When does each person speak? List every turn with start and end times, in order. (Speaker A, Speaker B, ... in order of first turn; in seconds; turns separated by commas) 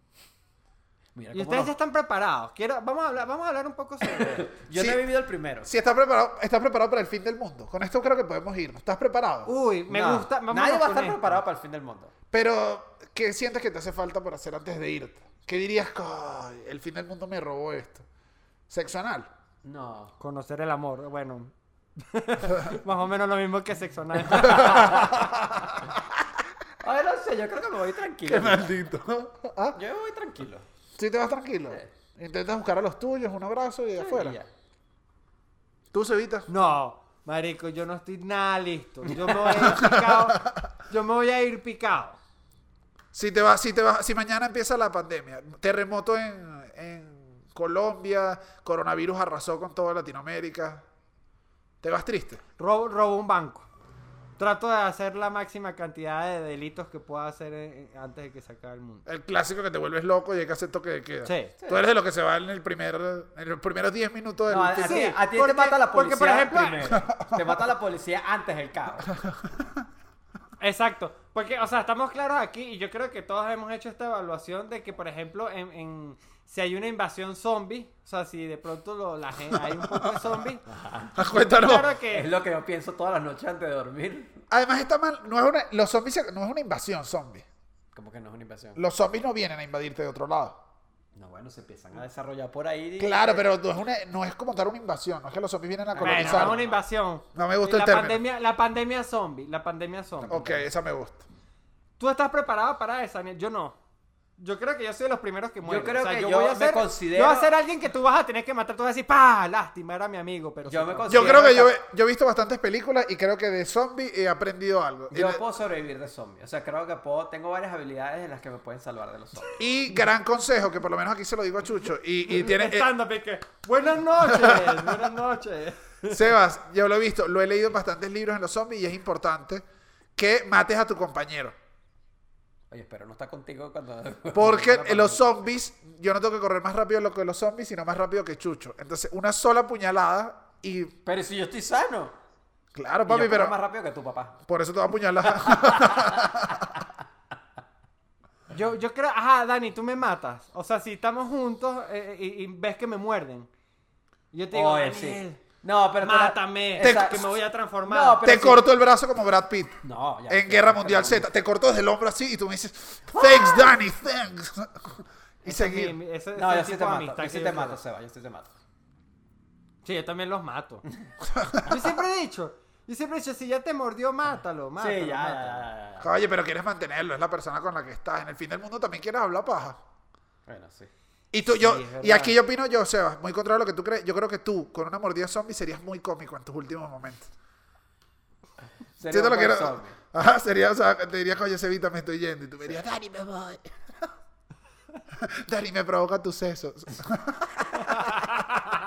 Speaker A: 1.1-1.7, Speaker B: 1.3-4.5, Speaker A: 4.0-5.7, Speaker C: 4.7-5.0, Speaker C: 5.6-9.5, Speaker B: 9.5-11.4, Speaker A: 9.9-12.1, Speaker C: 12.3-18.1, Speaker C: 18.7-19.3, Speaker A: 19.6-20.1, Speaker B: 20.2-25.1, Speaker C: 24.4-26.0, Speaker A: 24.5-25.1, Speaker A: 26.8-28.7, Speaker C: 28.3-29.8, Speaker A: 29.7-30.7, Speaker C: 31.0-34.4, Speaker A: 34.0-34.5, Speaker C: 35.9-36.5, Speaker B: 36.5-42.2, Speaker A: 39.1-39.8, Speaker C: 39.6-40.5, Speaker C: 43.1-50.8, Speaker C: 51.8-52.4, Speaker B: 52.6-53.7, Speaker B: 54.4-59.1, Speaker C: 59.1-65.1, Speaker B: 61.2-61.5, Speaker A: 64.5-69.1, Speaker B: 64.8-67.0, Speaker C: 67.1-67.6, Speaker B: 70.6-80.7, Speaker C: 79.5-80.3, Speaker A: 80.7-81.2, Speaker C: 81.2-81.9, Speaker B: 81.3-82.3, Speaker A: 82.1-84.4, Speaker C: 84.5-87.5, Speaker A: 87.9-88.8, Speaker C: 88.8-90.6, Speaker A: 91.2-93.5, Speaker C: 93.0-96.6, Speaker A: 95.9-96.8, Speaker B: 96.0-100.6, Speaker C: 97.3-98.2, Speaker C: 100.3-101.2, Speaker B: 102.0-103.8, Speaker B: 104.4-111.7, Speaker A: 105.7-107.5, Speaker A: 110.7-111.7, Speaker C: 111.1-115.4, Speaker A: 115.1-119.6, Speaker C: 119.6-122.9, Speaker B: 122.3-126.2, Speaker C: 124.3-125.0, Speaker C: 126.1-129.7, Speaker C: 130.2-131.6, Speaker A: 132.7-135.4, Speaker C: 134.3-140.9, Speaker A: 141.0-142.2, Speaker C: 142.7-143.6, Speaker A: 143.1-144.4, Speaker C: 144.5-146.8, Speaker A: 145.4-146.8, Speaker B: 148.5-153.5, Speaker B: 154.3-155.4, Speaker A: 154.5-157.3, Speaker B: 156.0-158.3, Speaker C: 156.8-157.3, Speaker A: 157.9-158.6, Speaker C: 158.2-166.0, Speaker A: 159.8-161.3, Speaker B: 165.4-167.8, Speaker A: 166.3-168.6, Speaker B: 169.8-170.8, Speaker C: 171.3-171.9, Speaker B: 171.6-175.7, Speaker A: 174.8-176.1, Speaker C: 176.0-179.8, Speaker A: 180.5-180.9, Speaker C: 181.3-187.3, Speaker B: 181.5-182.4, Speaker A: 189.0-190.0, Speaker C: 189.1-193.8, Speaker C: 195.2-198.4